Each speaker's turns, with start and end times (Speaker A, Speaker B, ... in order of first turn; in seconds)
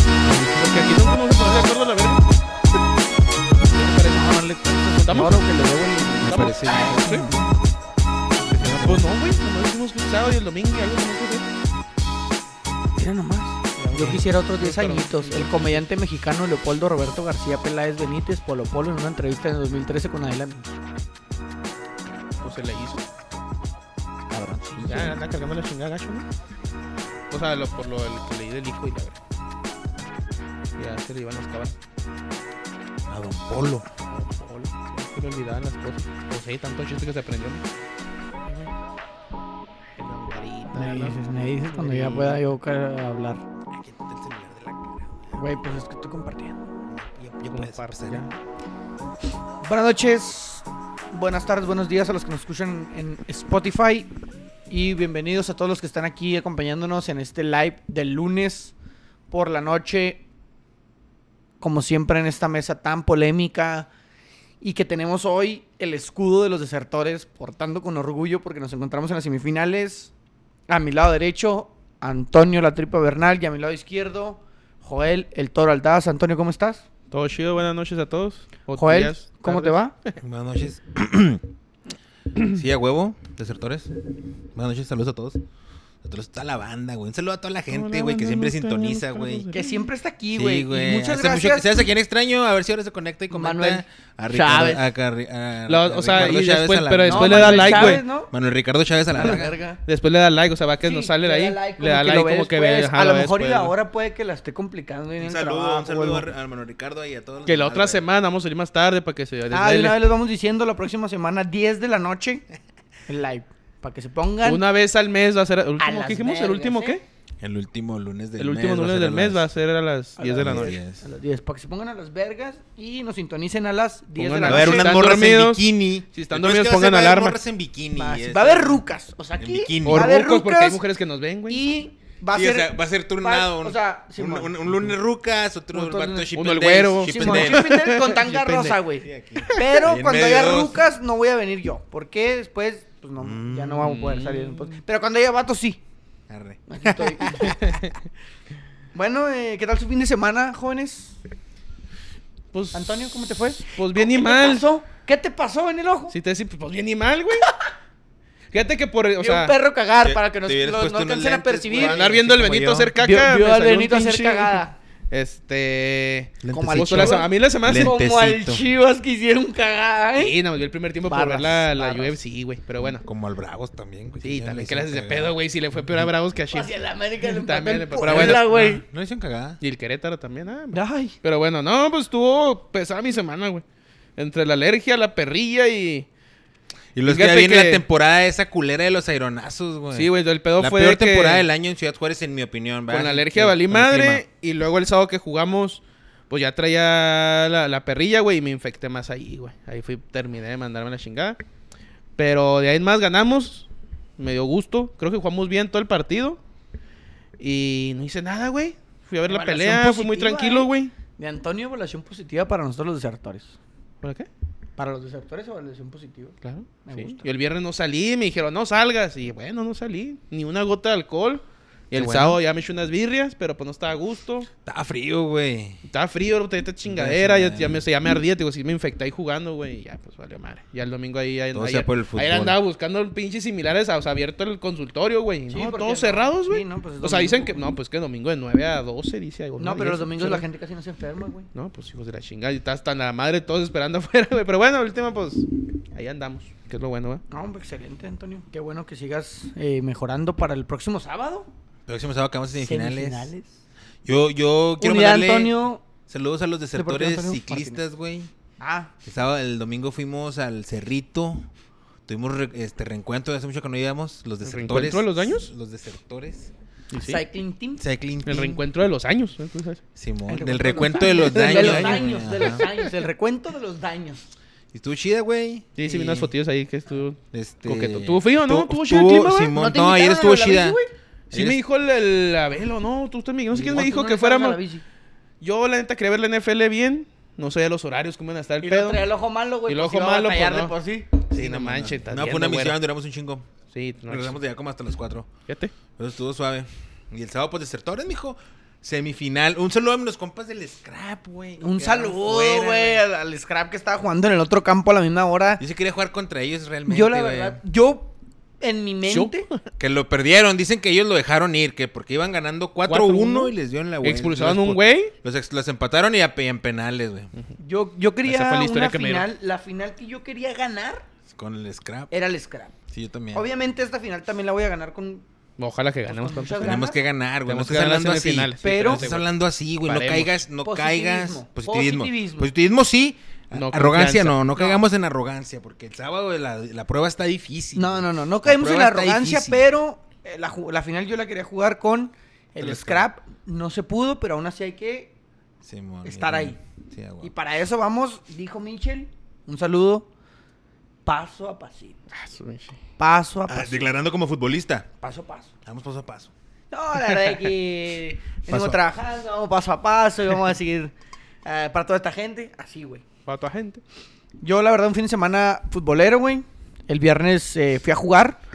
Speaker A: 0.5-2.2, 3.6-4.4, 5.0-5.4, 6.2-7.3, 8.5-11.5, 13.8-15.8, 22.4-23.0, 24.8-26.2, 27.3-29.2, 30.8-31.8, 34.1-37.6, 40.0-42.4, 47.5-48.3, 77.1-80.1, 87.7-89.9, 95.7-98.0, 99.2-103.7, 107.5-110.0, 114.4-117.0, 118.4-120.8, 124.2-127.4, 129.8-131.6, 136.3-138.8, 139.4-139.8, 143.8-144.8, 147.4-147.9, 152.5-152.9, 153.7-154.7, 156.1-157.5, 158.5-159.5, 161.7-168.0, 170.2-173.0, 174.2-178.5, 179.6-183.6, 184.2-186.1, 187.1-187.8, 189.9-191.4, 192.9-201.4, 202.2-206.4, 207.4-210.9, 214.0-214.3, 216.4-224.5, 225.9-240.4, 241.5-247.2, 264.4-265.5, 266.9-267.2, 268.2-269.8, 271.2-272.8, 275.8-279.5, 281.3-284.6, 285.4-289.0, 289.7-290.7, 291.3-292.8, 293.7-294.4, 295.5-295.7, 309.1-309.4, 312.8-315.1, 318.2-319.2, 325.6-326.8, 327.4-329.3, 329.8-330.4, 333.5-334.5, 352.1-352.8, 363.2-363.8
Speaker B: 4.1-7.4, 12.9-20.8, 24.3-25.1, 40.7-43.4, 45.3-46.8, 49.6-54.1, 54.7-58.7, 59.3-60.2, 61.6-63.9, 64.6-70.1, 70.7-76.8, 78.8-79.9, 89.5-91.9, 93.3-94.9, 97.1-98.3, 99.1-99.8, 100.8-106.3, 109.5-112.4, 113.1-114.6, 115.8-117.0, 120.2-125.1, 127.9-130.8, 131.5-134.7, 135.7-136.3, 137.0-145.8, 146.7-147.6, 148.9-151.2, 152.7-156.1, 159.2-162.0, 162.9-164.7, 166.5-170.3, 171.1-172.2, 176.5-178.8, 180.7-181.2, 209.3-213.5, 214.8-217.2, 235.5-237.6, 239.6-241.5, 247.3-251.5, 252.5-253.5, 254.8-255.8, 256.7-257.8, 258.6-258.9, 267.0-267.8, 270.3-274.2, 279.5-280.9, 283.5-284.8, 288.6-291.1, 301.6-305.6, 306.9-309.5, 317.6-321.1, 322.1-322.8, 323.3-325.2, 326.1-327.0, 328.6-329.0, 330.6-332.5, 337.7-345.1, 346.0-346.6, 347.2-350.1, 351.0-352.0, 353.0-353.9, 355.0-355.5, 356.7-360.9, 361.4-363.0, 364.4-368.4
Speaker C: 6.2-7.4, 8.6-9.0, 33.1-33.9, 43.7-45.4, 46.9-48.3, 80.2-81.4, 82.5-83.9, 84.5-85.4, 86.0-89.5, 90.3-99.6, 105.2-108.0, 117.4-119.5, 120.4-121.0, 124.4-128.8, 129.4-130.1, 132.3-137.7, 139.0-140.8, 143.2-144.1, 146.3-147.8, 160.0-162.9, 166.4-168.6, 172.8-176.1, 178.0-179.6, 186.9-194.2, 221.9-222.4, 224.6-225.8, 226.8-227.8, 231.5-232.6, 251.9-253.3, 254.0-258.3, 259.0-261.5, 262.1-266.5, 267.8-268.6, 269.9-272.7, 274.7-276.3, 277.3-280.8, 281.3-281.6, 291.3-293.5, 294.1-295.3, 296.0-303.0, 305.6-307.6, 309.8-317.3, 321.3-322.1, 322.9-323.4, 326.6-339.6, 342.6-343.0, 345.6-347.3, 353.5-354.9, 355.6-356.3, 358.5-358.8